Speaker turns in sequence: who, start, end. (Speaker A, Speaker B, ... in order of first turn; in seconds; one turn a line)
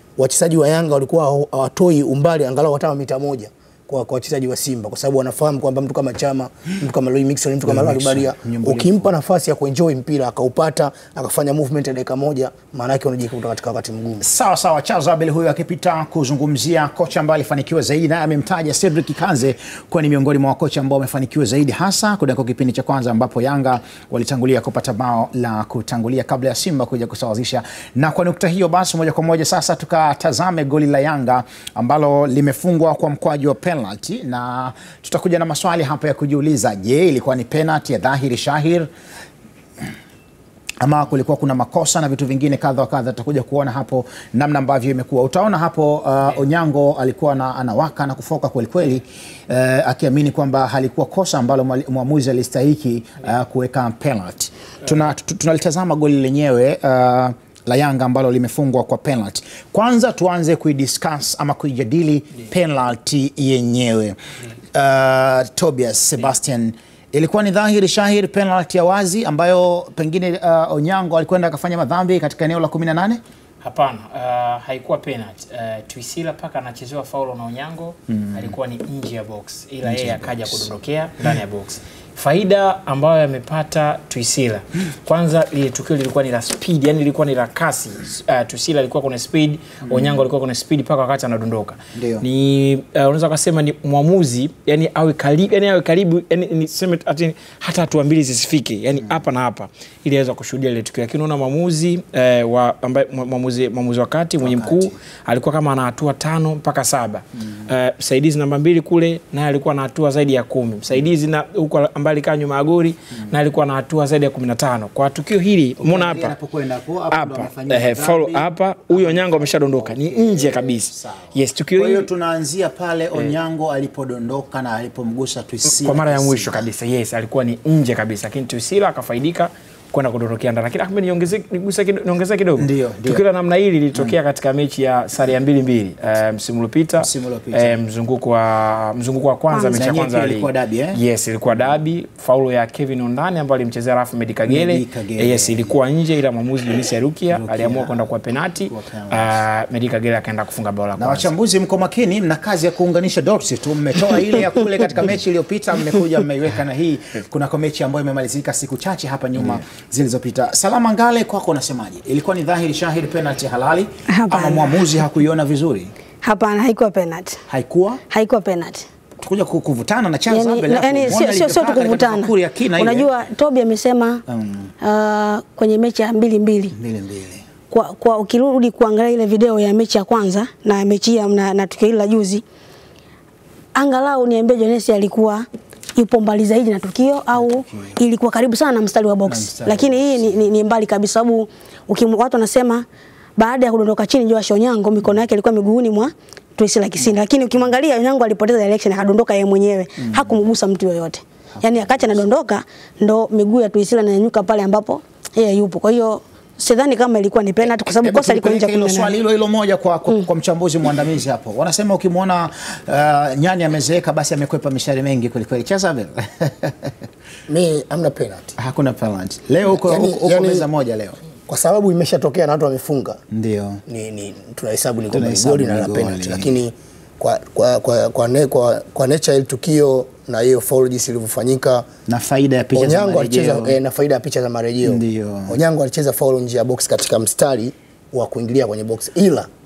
Speaker A: 0.2-14.2
Speaker B: 7.7-9.1
Speaker B: 14.2-38.9
Speaker B: 40.8-64.2
Speaker B: 64.7-73.2
Speaker C: 73.6-116.3
Speaker B: 79.8-80.7
Speaker B: 89.9-90.2
Speaker B: 92.0-92.2
Speaker B: 104.4-104.9
Speaker B: 115.8-126.6
Speaker C: 117.1-122.1
Speaker C: 125.7-151.3
Speaker B: 132.6-133.2
Speaker B: 137.0-137.9
Speaker D: 139.5-139.8
Speaker B: 139.7-141.0
Speaker B: 144.5-145.7
Speaker B: 147.3-148.0
Speaker B: 148.7-149.3
Speaker B: 151.0-165.9
Speaker D: 164.1-164.8
Speaker D: 166.2-167.4
Speaker B: 167.5-168.0
Speaker D: 168.1-168.9
Speaker B: 169.2-173.1
Speaker D: 170.3-174.2
Speaker B: 174.3-174.7
Speaker D: 174.8-176.8
Speaker B: 176.8-177.4
Speaker D: 177.7-182.4
Speaker D: 183.8-192.9
Speaker B: 187.4-188.0
Speaker B: 189.3-190.4
Speaker D: 193.4-209.2
Speaker B: 201.6-202.2
Speaker B: 207.9-216.9
Speaker A: 217.5-218.6
Speaker B: 218.6-221.2
Speaker A: 219.7-220.7
Speaker A: 221.5-223.2
Speaker B: 223.3-223.8
Speaker A: 223.9-231.9
Speaker B: 225.1-226.6
Speaker B: 232.1-233.8
Speaker A: 232.7-239.5
Speaker B: 234.8-235.5